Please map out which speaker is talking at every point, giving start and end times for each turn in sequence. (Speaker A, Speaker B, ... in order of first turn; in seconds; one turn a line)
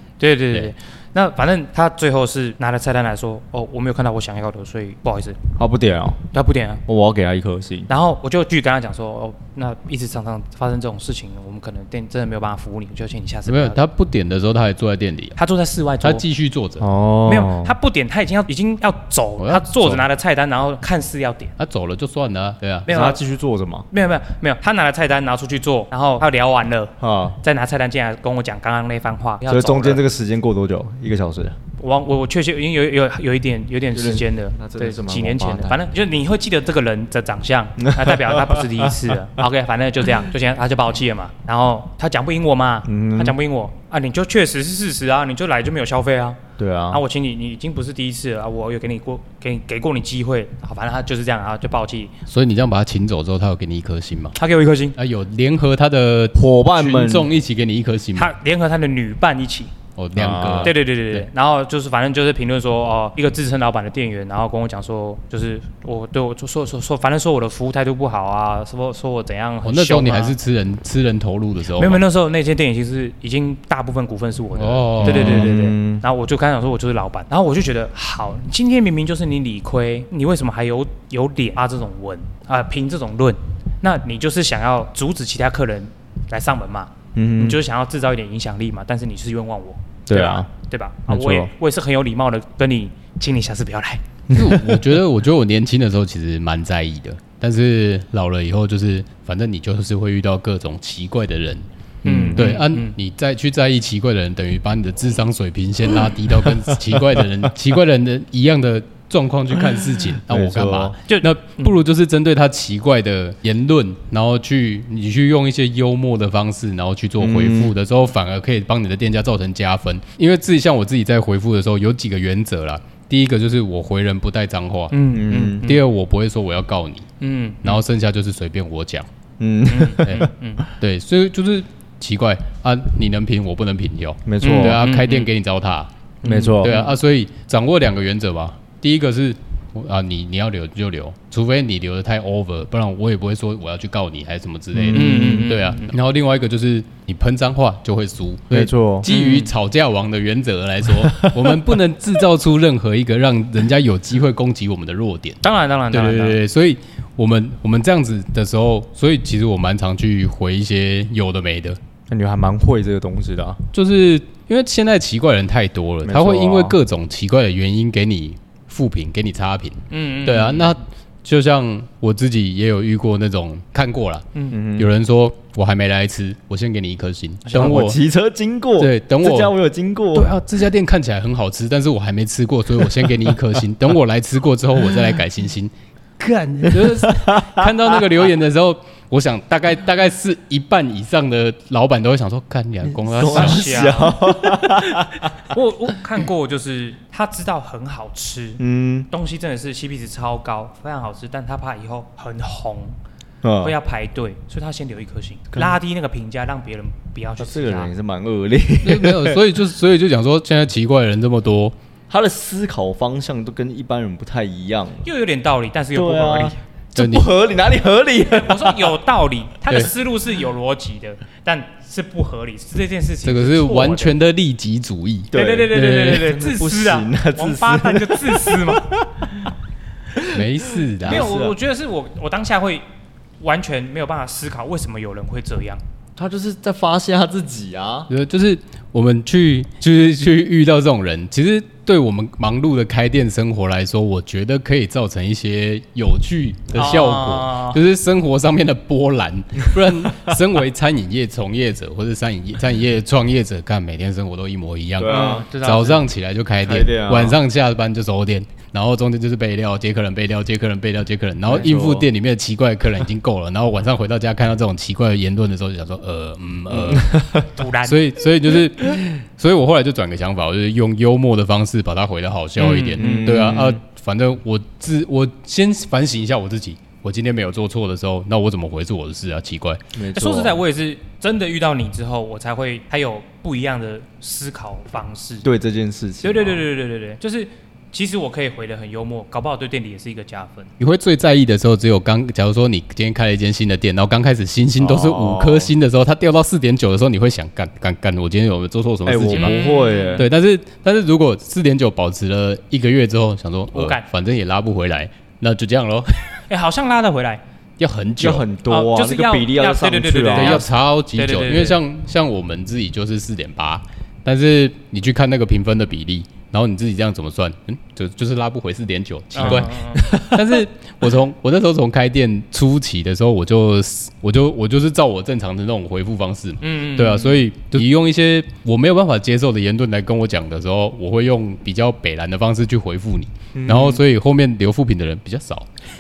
Speaker A: 0.2-5.4
Speaker B: 5.6-6.2
Speaker A: 6.3-6.8
Speaker B: 6.9-7.9
Speaker A: 7.9-13.8
Speaker C: 13.5-15.4
Speaker A: 15.4-16.3
Speaker C: 16.0-16.9
Speaker B: 16.8-17.7
Speaker A: 17.3-21.5
Speaker C: 19.4-20.0
Speaker C: 21.6-22.9
Speaker A: 22.9-23.2
Speaker B: 22.9-23.9
Speaker A: 23.9-30.0
Speaker B: 27.0-27.4
Speaker B: 29.5-31.6
Speaker A: 31.8-52.1
Speaker B: 33.9-35.8
Speaker B: 37.9-39.0
Speaker B: 42.9-43.4
Speaker B: 46.6-47.0
Speaker C: 52.3-54.4
Speaker A: 54.4-55.0
Speaker C: 55.0-58.3
Speaker B: 56.3-57.3
Speaker A: 58.2-59.7
Speaker C: 60.0-61.3
Speaker B: 60.1-60.7
Speaker A: 60.6-70.3
Speaker C: 69.6-72.0
Speaker A: 71.8-94.0
Speaker C: 74.6-75.5
Speaker B: 75.0-76.0
Speaker B: 87.2-87.6
Speaker B: 90.1-90.5
Speaker B: 91.1-91.5
Speaker B: 94.3-94.9
Speaker C: 94.3-101.7
Speaker B: 102.0-102.6
Speaker A: 102.0-102.9
Speaker C: 102.3-125.0
Speaker B: 110.3-111.0
Speaker A: 111.1-111.8
Speaker B: 117.2-117.7
Speaker A: 124.9-125.8
Speaker B: 125.1-125.7
Speaker C: 125.6-127.1
Speaker A: 127.2-127.8
Speaker C: 127.6-129.1
Speaker B: 129.4-130.3
Speaker A: 129.7-130.6
Speaker C: 130.1-161.8
Speaker B: 134.3-134.8
Speaker A: 134.4-135.3
Speaker B: 136.2-136.8
Speaker A: 136.2-136.9
Speaker B: 144.7-145.5
Speaker A: 144.9-145.9
Speaker B: 148.5-149.5
Speaker A: 149.1-149.4
Speaker B: 151.2-151.5
Speaker A: 155.4-156.4
Speaker B: 162.1-163.6
Speaker C: 163.7-178.0
Speaker B: 166.1-166.8
Speaker A: 169.9-170.7
Speaker B: 174.5-174.9
Speaker A: 177.4-177.7
Speaker B: 177.5-180.3
Speaker C: 178.8-179.5
Speaker C: 180.1-194.0
Speaker B: 182.8-183.4
Speaker B: 186.6-188.0
Speaker B: 192.9-195.3
Speaker A: 193.3-194.2
Speaker A: 195.4-203.0
Speaker B: 198.6-199.1
Speaker B: 203.4-203.8
Speaker A: 203.6-207.9
Speaker B: 205.5-205.8
Speaker B: 207.4-209.4
Speaker C: 208.8-211.8
Speaker B: 212.1-215.1
Speaker A: 215.0-216.6
Speaker B: 215.9-218.9
Speaker C: 217.0-217.3
Speaker A: 218.3-224.2
Speaker C: 223.2-226.3
Speaker B: 225.3-229.5
Speaker A: 225.3-229.5
Speaker B: 230.2-231.6
Speaker C: 230.3-231.3
Speaker A: 231.1-232.8
Speaker A: 233.4-235.8
Speaker B: 236.2-238.1
Speaker C: 238.1-267.2
Speaker A: 246.7-247.8
Speaker B: 255.0-255.4
Speaker A: 255.1-256.1
Speaker B: 256.6-257.4
Speaker B: 261.5-262.1
Speaker B: 266.7-267.5
Speaker A: 267.5-268.0
Speaker C: 267.8-279.8
Speaker A: 272.6-273.4
Speaker B: 273.0-273.8
Speaker B: 279.9-280.6
Speaker A: 280.1-285.5
Speaker B: 285.4-286.6
Speaker A: 286.2-290.7
Speaker C: 290.8-306.4
Speaker B: 294.8-295.7
Speaker B: 299.1-300.3
Speaker A: 299.3-300.3
Speaker A: 303.7-304.1
Speaker A: 306.5-307.4
Speaker C: 307.8-308.4
Speaker B: 308.2-310.7
Speaker A: 308.7-311.8
Speaker C: 310.4-335.7
Speaker A: 319.3-320.1
Speaker B: 319.4-320.7
Speaker A: 326.6-327.4
Speaker B: 333.6-334.0